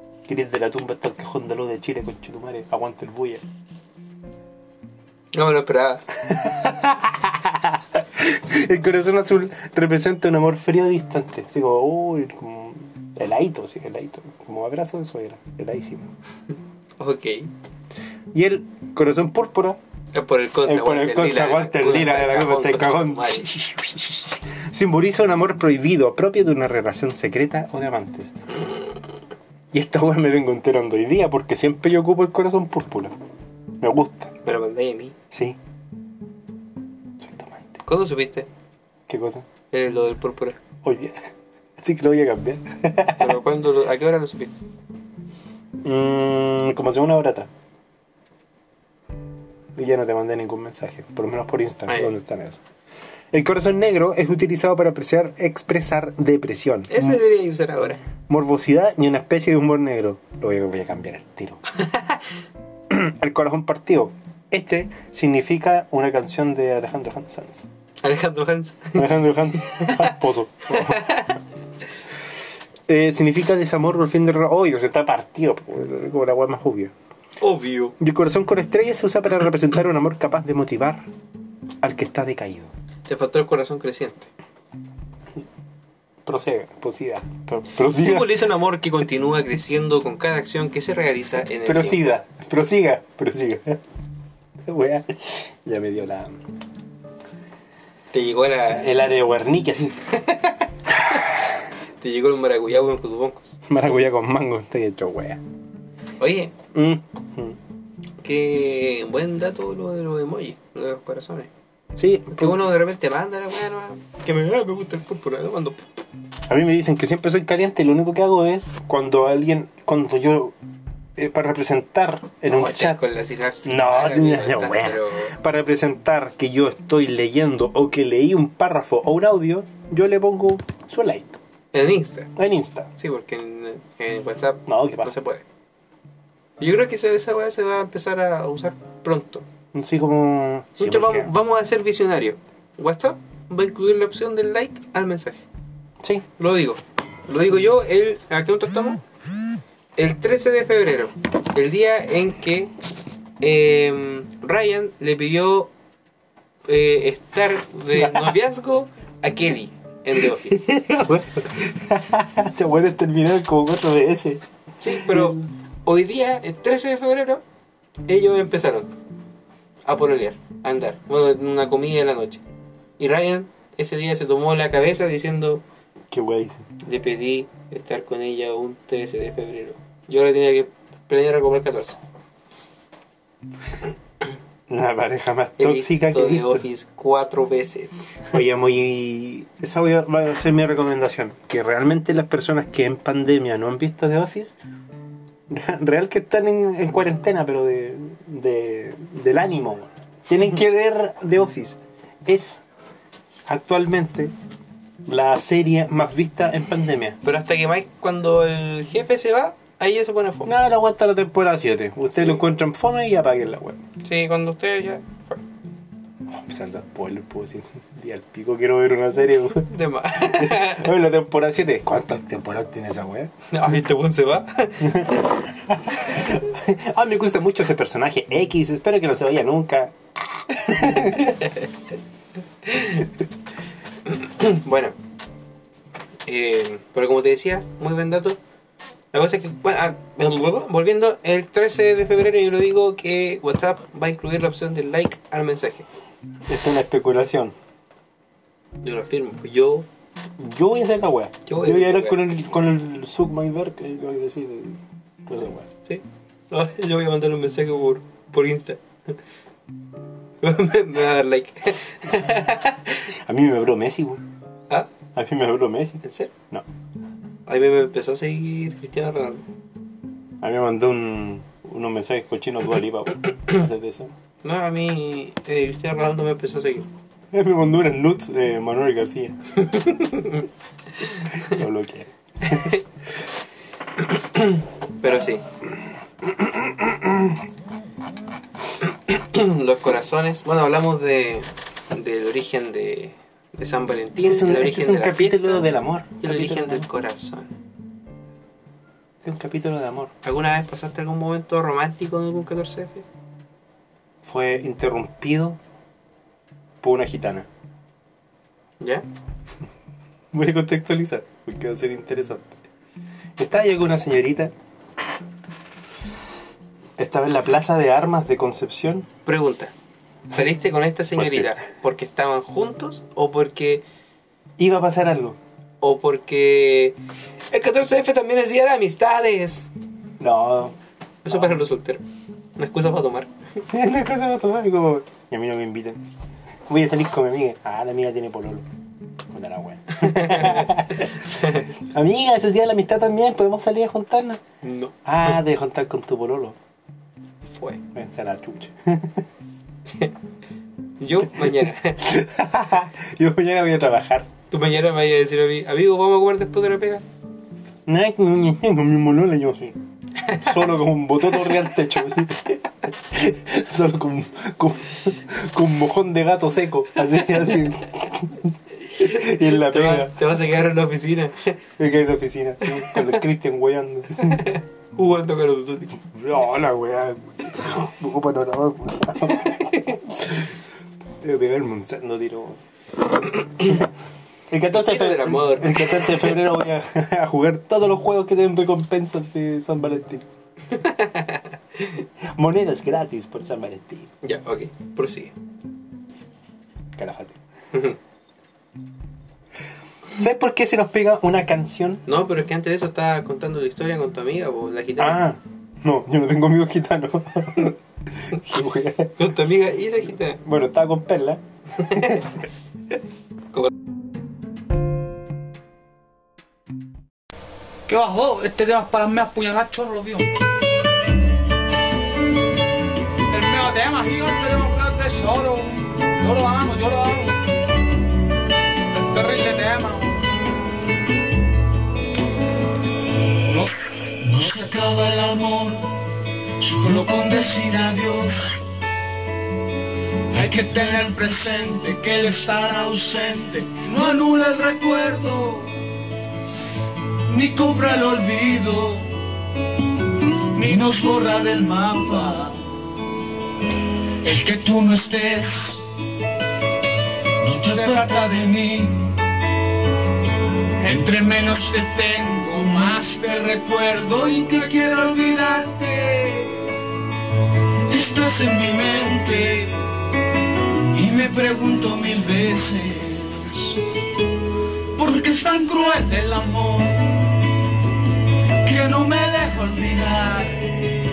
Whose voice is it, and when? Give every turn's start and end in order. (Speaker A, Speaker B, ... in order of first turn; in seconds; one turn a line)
Speaker A: 0.3-3.4
Speaker B: 5.3-6.0
Speaker A: 6.3-16.1
Speaker B: 17.0-17.5
Speaker A: 18.3-19.8
Speaker B: 20.1-23.5
Speaker A: 20.6-28.4
Speaker A: 29.7-33.2
Speaker A: 33.8-34.3
Speaker B: 34.5-35.1
Speaker A: 35.3-35.6
Speaker A: 37.2-37.8
Speaker B: 37.9-38.5
Speaker A: 39.1-39.5
Speaker B: 39.7-40.6
Speaker A: 40.8-41.2
Speaker A: 41.8-43.4
Speaker B: 43.2-44.5
Speaker A: 45.8-47.5
Speaker A: 49.8-52.6
Speaker B: 51.9-52.1
Speaker A: 53.3-57.2
Speaker B: 56.9-58.0
Speaker A: 58.3-61.6
Speaker A: 62.9-67.7
Speaker B: 68.0-69.0
Speaker A: 69.0-71.2
Speaker B: 69.7-70.1
Speaker B: 70.8-71.3
Speaker A: 72.9-76.9
Speaker B: 77.4-78.0
Speaker A: 78.0-81.1
Speaker A: 81.8-82.7
Speaker B: 83.1-84.3
Speaker A: 86.2-88.4
Speaker B: 87.8-92.2
Speaker A: 91.6-93.8
Speaker A: 94.7-96.4
Speaker B: 98.1-98.9
Speaker A: 98.8-100.0
Speaker B: 102.0-103.6
Speaker A: 103.7-105.4
Speaker B: 106.2-106.5
Speaker A: 106.7-107.6
Speaker B: 108.2-111.5
Speaker A: 112.0-112.6
Speaker B: 112.3-115.8
Speaker A: 116.5-120.6
Speaker A: 121.2-123.0
Speaker B: 122.5-125.3
Speaker A: 123.6-131.4
Speaker B: 131.7-132.3
Speaker A: 132.4-132.9
Speaker B: 133.0-135.4
Speaker A: 134.7-135.1
Speaker B: 136.6-139.4
Speaker A: 139.7-141.3
Speaker B: 140.8-145.4
Speaker A: 146.0-146.3
Speaker B: 146.4-149.0
Speaker B: 150.0-152.7
Speaker B: 153.4-155.7
Speaker B: 156.7-160.7
Speaker A: 157.9-158.3
Speaker A: 160.5-165.5
Speaker B: 164.8-167.4
Speaker B: 168.1-168.9
Speaker B: 169.8-172.4
Speaker B: 173.0-175.6
Speaker A: 176.1-176.7
Speaker B: 176.8-182.0
Speaker A: 184.7-186.7
Speaker B: 185.6-188.3
Speaker A: 188.3-194.6
Speaker A: 195.5-202.6
Speaker A: 203.5-204.3
Speaker A: 205.1-207.2
Speaker B: 207.2-210.5
Speaker A: 210.5-213.8
Speaker B: 214.0-215.4
Speaker A: 216.3-219.7
Speaker B: 219.7-220.9
Speaker A: 220.3-223.3
Speaker B: 223.5-225.0
Speaker A: 224.8-229.9
Speaker A: 230.5-231.4
Speaker B: 232.7-233.1
Speaker B: 234.1-235.0
Speaker B: 236.3-238.4
Speaker B: 239.1-245.9
Speaker A: 246.5-247.5
Speaker B: 248.8-249.9
Speaker A: 250.4-255.7
Speaker B: 251.5-252.2
Speaker B: 255.9-258.8
Speaker B: 260.4-263.0
Speaker A: 263.2-264.2
Speaker A: 265.1-266.7
Speaker B: 266.0-266.3
Speaker B: 267.5-269.4
Speaker A: 270.4-274.1
Speaker B: 274.4-276.9
Speaker A: 277.3-279.4
Speaker B: 279.7-280.4
Speaker A: 281.5-282.6
Speaker B: 284.3-285.4
Speaker A: 286.2-287.4
Speaker B: 288.9-295.7
Speaker A: 294.2-296.9
Speaker B: 296.2-297.5
Speaker A: 299.2-300.1
Speaker B: 300.2-303.1
Speaker A: 304.2-305.6
Speaker A: 306.8-307.5
Speaker B: 308.8-309.1
Speaker A: 310.3-312.6
Speaker A: 313.4-314.5
Speaker A: 317.0-319.1
Speaker B: 319.3-319.7
Speaker B: 320.3-323.8
Speaker A: 321.2-321.6
Speaker A: 324.6-325.4
Speaker B: 325.8-327.0
Speaker B: 327.5-329.6
Speaker A: 330.2-330.8
Speaker B: 331.2-332.0
Speaker A: 331.3-331.6
Speaker B: 332.6-333.3
Speaker A: 333.7-336.0
Speaker A: 336.7-338.7
Speaker A: 339.3-344.4
Speaker B: 340.1-340.7
Speaker B: 344.6-345.3
Speaker A: 345.1-346.6
Speaker A: 347.9-349.2
Speaker B: 351.0-352.0
Speaker A: 351.4-354.3
Speaker B: 354.5-357.0
Speaker A: 357.9-359.8
Speaker A: 360.3-370.2
Speaker B: 368.9-371.6
Speaker A: 371.8-374.5
Speaker B: 374.2-376.1
Speaker A: 376.1-380.5
Speaker A: 381.2-382.6
Speaker A: 383.6-383.9
Speaker A: 384.5-390.3
Speaker B: 384.7-386.4
Speaker B: 390.7-392.0
Speaker A: 392.3-394.1
Speaker B: 394.2-395.3
Speaker A: 397.0-397.4
Speaker A: 400.2-402.0
Speaker B: 402.1-405.2
Speaker A: 405.0-407.8
Speaker A: 408.3-409.1
Speaker B: 409.2-410.4
Speaker A: 410.4-412.2
Speaker C: 417.9-420.2
Speaker C: 423.3-427.4
Speaker C: 428.9-430.3
Speaker D: 434.2-435.9
Speaker D: 436.6-438.3
Speaker D: 440.3-445.7
Speaker C: 440.4-441.2
Speaker D: 447.3-449.1
Speaker D: 450.6-452.6
Speaker D: 454.2-455.8
Speaker D: 457.4-459.2
Speaker D: 460.8-466.7
Speaker D: 467.9-469.8
Speaker D: 470.9-473.8
Speaker D: 475.0-477.3
Speaker D: 478.6-480.7